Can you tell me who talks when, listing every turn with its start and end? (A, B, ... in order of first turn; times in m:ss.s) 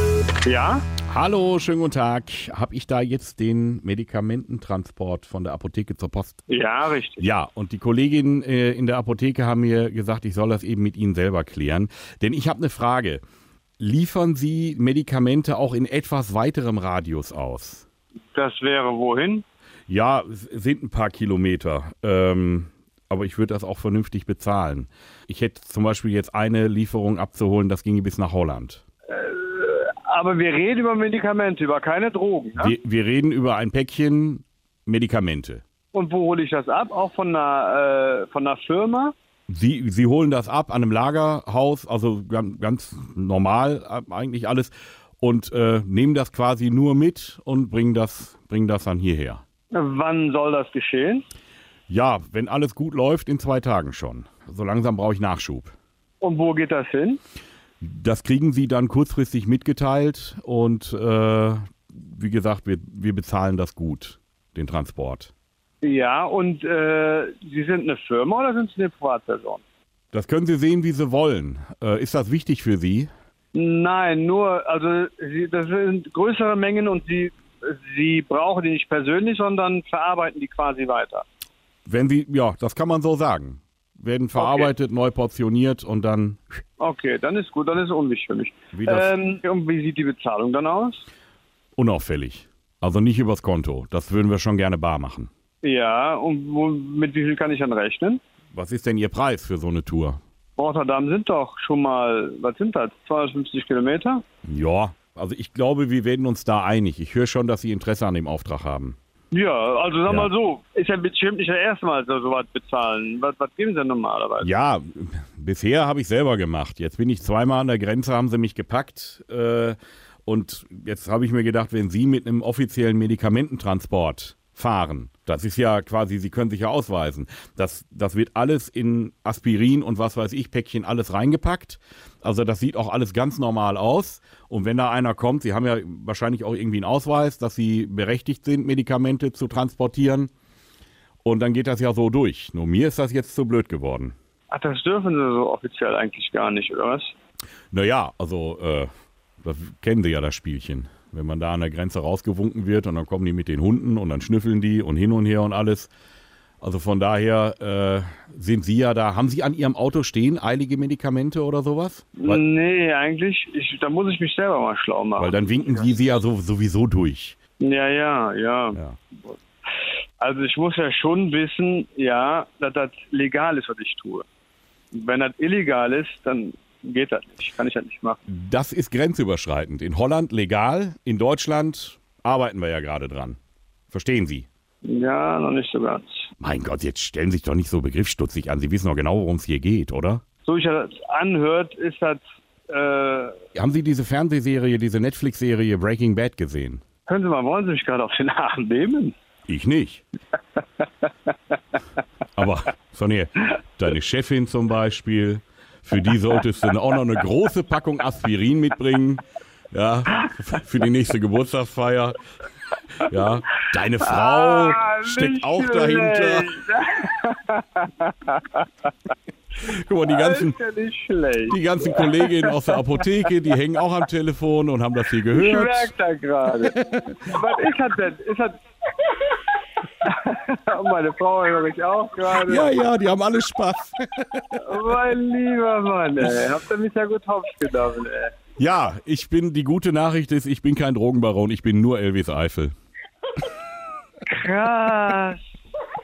0:00.4-0:00.8 A
0:01.1-0:06.4 B
0:06.5-0:07.2 A
0:07.2-0:13.2 B
0:13.8-0:17.9 B
0:18.3-0:19.4 A
0:19.9-0:28.8 B
0:29.1-0:32.8 A
0:32.6-0:35.6 B
0:35.9-0:39.1 A
0:39.5-0:49.4 B
0:49.7-0:51.2 A
0:51.9-0:55.7 B
0:56.2-0:57.2 A
0:57.8-1:05.3 B
1:05.8-1:09.6 A
1:10.1-1:13.1 B
1:13.5-1:21.3 A
1:21.9-1:26.4 B
1:24.4-1:24.7 A
1:26.8-1:31.0 A
1:28.7-1:29.1 B
1:31.8-1:35.3 B
1:35.6-1:38.2 A
1:38.5-1:40.2 B
1:40.6-1:44.2 A
1:44.5-1:49.0 B
1:49.3-1:54.5 A
1:54.4-2:20.3 B
2:21.2-2:24.2 B
2:24.5-2:27.1 A
2:27.7-2:28.9 B
2:29.4-2:35.9 B
2:36.6-2:42.4 B
2:42.2-2:45.9 A
2:45.2-2:47.4 B
2:47.6-2:49.4 A
2:50.2-2:54.2 A
2:54.9-2:58.2 A
2:58.3-3:03.4 B
3:03.9-3:04.5 B
3:04.8-3:06.3 A
3:06.4-3:10.2 B
3:10.4-3:13.4 A
3:13.6-3:16.8 B
3:17.1-3:19.2 A
3:19.5-3:20.0 B
3:22.4-3:32.2 B
3:33.0-3:36.5 B
3:34.0-3:38.7 A
3:39.6-3:40.6 B
3:40.1-3:42.8 A
3:41.5-3:45.9 B
3:45.3-3:49.4 A
3:46.8-3:47.1 B
3:50.0-3:52.7 A
3:52.3-3:54.7 B
3:54.6-3:58.3 A
3:58.6-4:02.7 B
4:04.3-4:05.4 A